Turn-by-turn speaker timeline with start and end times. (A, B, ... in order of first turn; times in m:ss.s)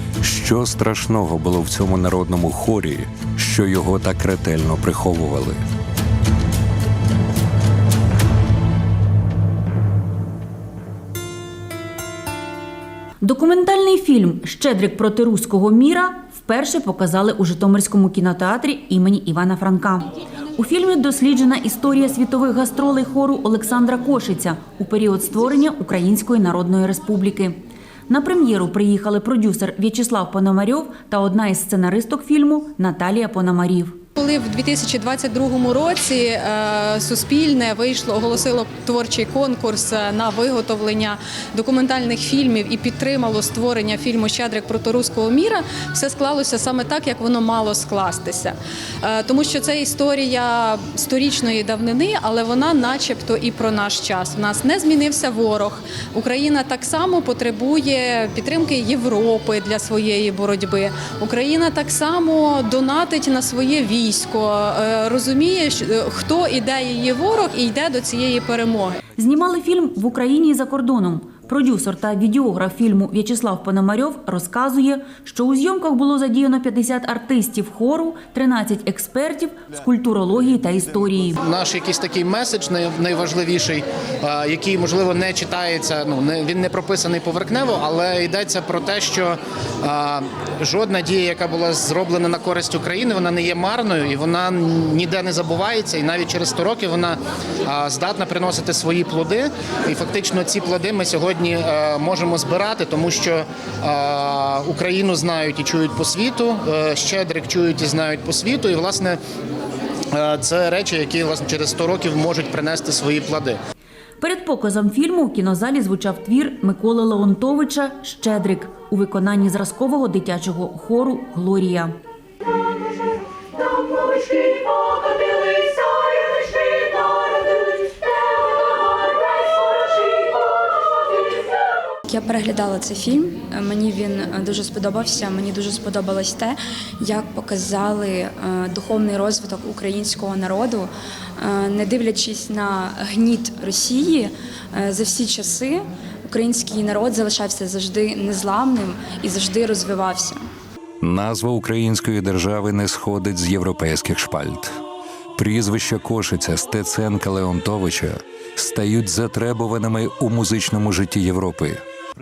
0:00.2-0:05.6 A
0:13.2-0:27.6 B
0:28.1-0:34.0 B
0:34.2-1:09.0 C
1:09.2-1:21.4 B
1:21.4-1:49.2 D
1:50.1-1:53.6 D
1:54.2-2:01.9 B
2:12.1-2:30.4 E
2:31.0-2:34.7 A
2:35.4-2:41.8 A